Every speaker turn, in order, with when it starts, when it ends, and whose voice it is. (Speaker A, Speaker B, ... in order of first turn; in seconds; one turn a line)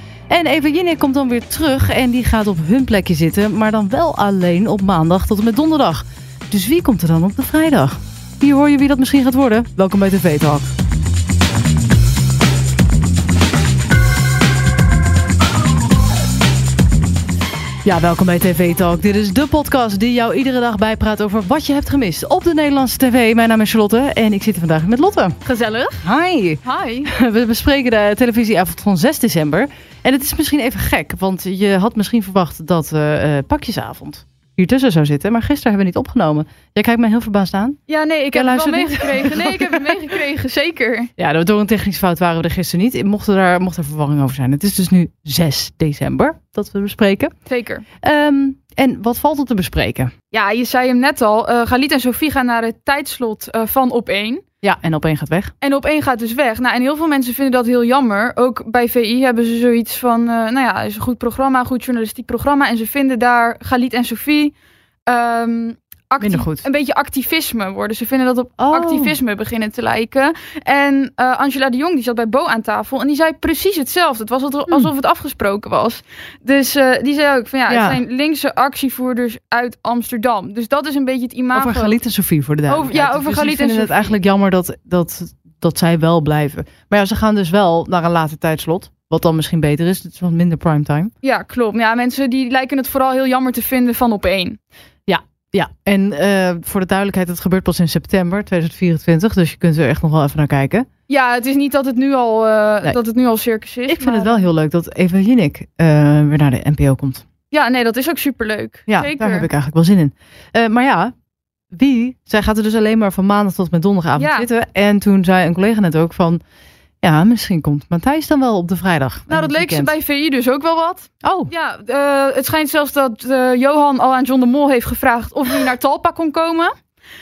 Speaker A: 0.3-10.7
Speaker A: 17.8-25.4
Speaker B: 25.4-26.0
Speaker A: 26.0-37.8
Speaker B: 26.6-27.1
Speaker B: 37.9-41.1
Speaker A: 38.3-39.9
Speaker A: 41.2-47.3
Speaker B: 47.5-47.9
Speaker A: 48.0-50.1
Speaker B: 50.3-54.4
Speaker A: 54.6-55.5
Speaker B: 55.6-64.5
Speaker B: 65.1-82.0
Speaker A: 66.2-66.6
Speaker A: 68.6-69.2
Speaker A: 77.7-78.0
Speaker A: 81.5-91.1
Speaker B: 82.7-84.2
Speaker B: 91.2-94.6
Speaker A: 95.1-100.9
Speaker B: 101.1-104.5
Speaker A: 103.9-107.2
Speaker B: 107.5-109.5
Speaker A: 108.9-111.1
Speaker A: 111.7-116.4
Speaker B: 114.2-114.5
Speaker A: 117.0-119.9
Speaker B: 119.3-126.7
Speaker A: 121.2-121.5